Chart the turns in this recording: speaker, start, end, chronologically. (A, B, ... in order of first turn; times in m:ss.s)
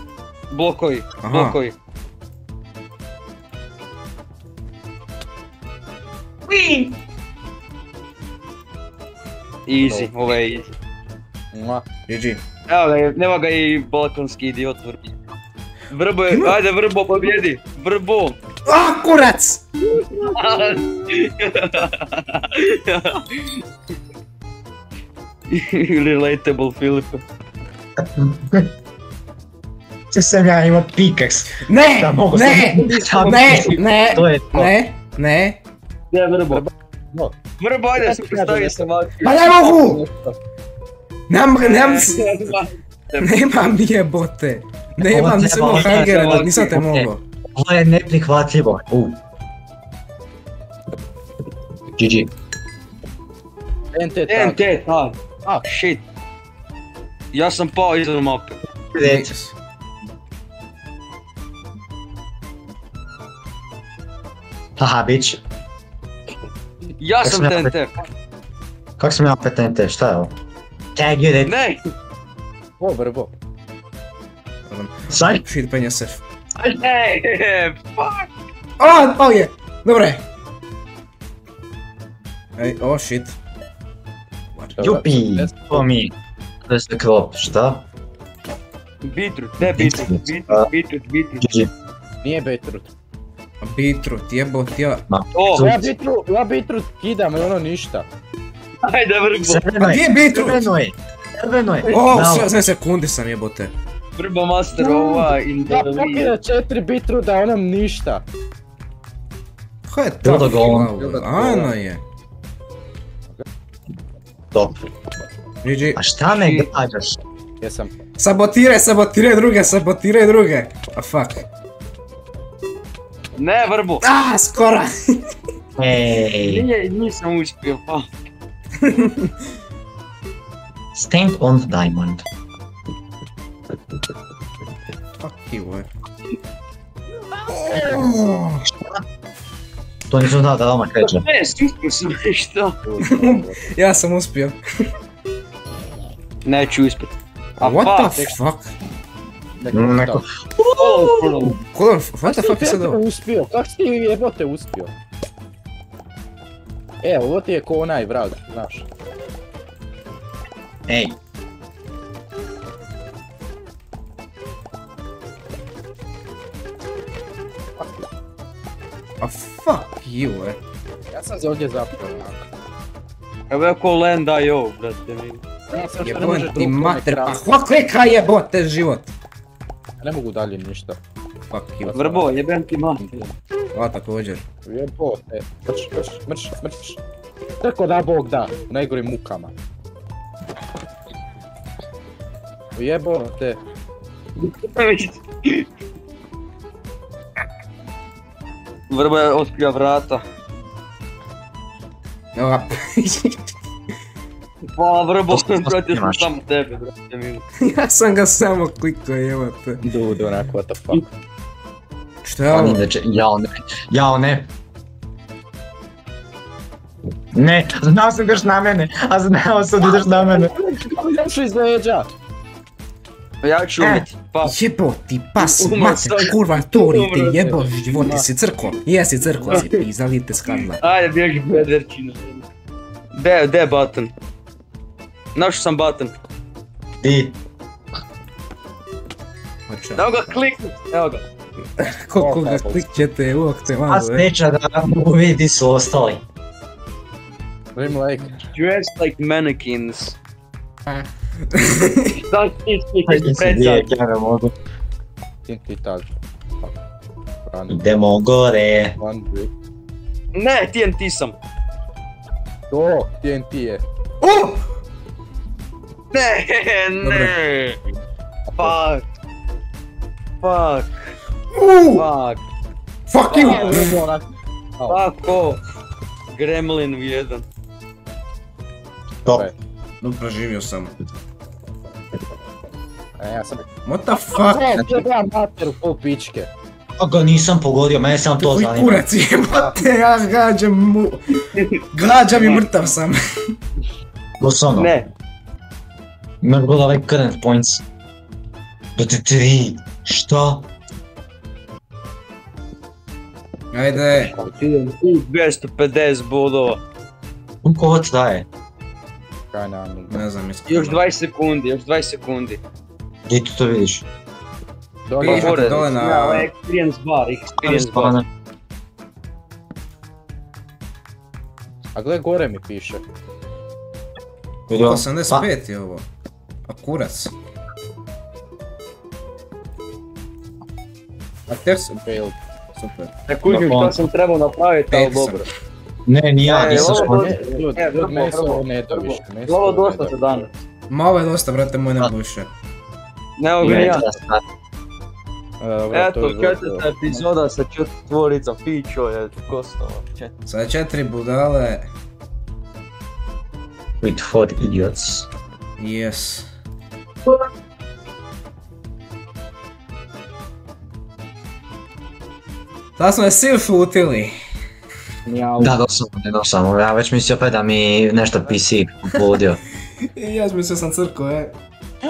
0:00.5-0:01.7 A
0:01.2-0:01.6 B
0:06.5-0:07.0 C
0:09.7-0:10.7 A
0:09.8-0:10.1 D
0:11.5-0:11.8 D
0:12.1-0:12.4 B
0:12.7-0:15.2 A
0:15.9-0:18.4 A
0:16.3-0:16.6 B
0:18.7-0:19.6 B
0:20.3-0:23.6 A
0:25.5-0:27.2 A
0:28.0-0:28.7 C
0:30.1-0:34.7 C
0:31.6-0:35.6 B
0:32.7-0:34.1 A
0:36.1-0:36.7 A
0:36.5-0:37.3 D
0:37.6-0:40.4 A
0:38.0-0:38.9 D
0:39.2-0:40.0 B
0:41.3-0:42.2 B
0:41.6-0:43.8 A
0:43.2-0:47.2 B
0:45.0-0:49.2 C
0:45.7-0:46.8 A
0:52.0-0:52.3 C
0:53.9-0:54.7 D
0:54.3-0:56.0 A
0:57.3-0:58.6 A
0:59.0-0:59.3 C
0:59.0-0:59.6 B
1:04.8-1:05.4 C
1:07.0-1:08.0 A
1:07.2-1:07.8 C
1:09.0-1:10.3 C
1:11.0-1:11.6 C
1:11.4-1:11.9 A
1:12.8-1:13.3 D
1:14.7-1:16.2 B
1:15.1-1:15.4 C
1:16.6-1:18.3 A
1:18.8-1:20.2 B
1:22.6-1:23.4 B
1:24.8-1:25.9 D
1:24.8-1:26.1 C
1:26.7-1:27.8 C
1:29.0-1:31.5 A
1:29.6-1:30.7 C
1:31.4-1:31.7 C
1:32.2-1:32.9 D
1:33.6-1:35.0 B
1:35.1-1:35.9 C
1:35.4-1:35.7 A
1:35.6-1:38.1 D
1:38.8-1:39.7 A
1:39.5-1:42.5 C
1:39.8-1:40.7 B
1:41.9-1:43.7 B
1:44.2-1:46.3 A
1:44.7-1:48.2 D
1:49.9-1:52.0 B
1:50.2-1:50.9 C
1:50.6-1:51.7 D
1:55.6-1:56.7 B
1:56.0-1:57.2 C
1:57.6-1:58.0 D
1:58.2-2:01.4 B
2:03.4-2:04.0 A
2:04.0-2:05.2 B
2:05.8-2:06.7 C
2:06.4-2:08.1 A
2:08.9-2:09.3 B
2:11.0-2:12.2 C
2:15.2-2:15.9 B
2:17.5-2:18.7 B
2:20.1-2:21.2 C
2:21.0-2:22.8 A
2:22.8-2:23.9 D
2:23.2-2:24.6 B
2:26.4-2:28.3 A
2:27.6-2:28.7 B
2:29.6-2:30.2 D
2:29.7-2:31.5 C
2:30.8-2:31.6 A
2:31.7-2:33.0 B
2:32.2-2:34.9 D
2:37.0-2:38.9 D
2:40.9-2:41.2 C
2:47.8-2:48.1 D
2:49.2-2:50.6 B
2:51.1-2:52.5 D
2:53.5-2:55.4 A
2:55.7-2:57.5 D
2:56.0-2:59.1 B
3:00.0-3:01.0 D
3:01.5-3:02.0 B
3:01.8-3:02.3 D
3:01.9-3:03.3 A
3:03.7-3:04.4 B
3:04.7-3:07.0 D
3:07.6-3:09.5 D
3:12.8-3:13.6 D
3:14.4-3:15.7 A
3:18.9-3:20.2 A
3:22.4-3:23.5 B
3:24.8-3:27.4 A
3:25.3-3:26.3 C
3:27.6-3:29.8 B
3:29.8-3:31.1 D
3:32.2-3:32.8 B
3:32.5-3:34.5 C
3:37.3-3:40.5 C
3:39.8-3:42.1 D
3:43.4-3:44.5 A
3:43.8-3:44.0 C
3:44.4-3:50.8 B
3:45.4-3:47.7 A
3:47.5-3:48.2 D
3:49.4-3:49.7 D
3:49.5-3:49.8 A
3:50.7-3:52.4 A
3:53.1-3:54.1 A
3:55.4-3:56.1 A
3:57.0-3:57.4 C
3:59.7-4:00.4 B
4:00.0-4:01.2 A
4:01.8-4:04.2 B
4:02.2-4:02.8 D
4:03.9-4:06.2 C
4:07.8-4:08.4 D
4:08.5-4:10.2 A
4:10.9-4:12.2 B
4:12.2-4:13.9 A
4:13.0-4:14.5 C
4:15.5-4:16.7 D
4:17.4-4:17.9 D
4:17.7-4:18.9 C
4:19.0-4:19.5 D
4:20.4-4:21.4 A
4:22.7-4:23.8 D
4:24.2-4:24.6 B
4:26.1-4:27.8 A
4:27.0-4:27.4 B
4:28.5-4:28.8 D
4:28.6-4:29.1 A
4:30.4-4:31.1 A
4:31.5-4:32.0 B
4:32.0-4:32.4 A
4:33.1-4:34.0 B
4:33.3-4:33.9 A
4:33.3-4:34.2 D
4:34.8-4:35.0 D
4:34.9-4:35.6 A
4:36.3-4:37.4 A
4:39.3-4:39.6 D
4:40.0-4:40.9 B
4:43.2-4:43.7 D
4:43.9-4:44.7 B
4:44.4-4:46.5 D
4:44.8-4:45.0 C
4:47.0-4:49.0 C
4:48.4-4:51.4 B
4:49.5-4:49.8 D
4:51.9-4:53.2 B
4:52.3-4:52.7 A
4:54.4-4:54.9 C
4:54.8-4:55.1 A
4:56.4-4:57.8 C
4:59.0-5:00.7 C
5:03.7-5:04.3 B
5:04.1-5:06.8 A
5:07.6-5:08.5 C
5:09.5-5:10.2 D
5:10.1-5:11.0 B
5:10.7-5:12.6 A
5:13.3-5:14.0 C
5:15.0-5:15.9 D
5:15.2-5:16.5 B
5:15.2-5:18.2 A
5:17.6-5:18.3 C
5:22.0-5:23.0 D
5:24.7-5:25.5 C
5:24.8-5:26.0 B
5:26.7-5:27.3 B
5:31.5-5:32.0 B
5:32.0-5:32.4 D
5:32.8-5:33.1 B
5:33.3-5:35.5 A
5:33.5-5:34.0 C
5:34.9-5:35.4 B
5:36.1-5:37.4 C
5:36.4-5:40.5 A
5:36.7-5:40.5 D
5:40.9-5:42.5 B
5:43.4-5:44.0 A
5:43.6-5:44.4 C
5:43.8-5:44.1 D
5:45.6-5:47.2 D
5:45.9-5:50.4 A
5:50.5-5:51.9 B
5:54.0-5:55.3 C
5:55.8-5:56.5 B
6:03.0-6:04.3 B
6:05.2-6:05.8 D
6:05.6-6:09.6 C
6:10.1-6:11.6 B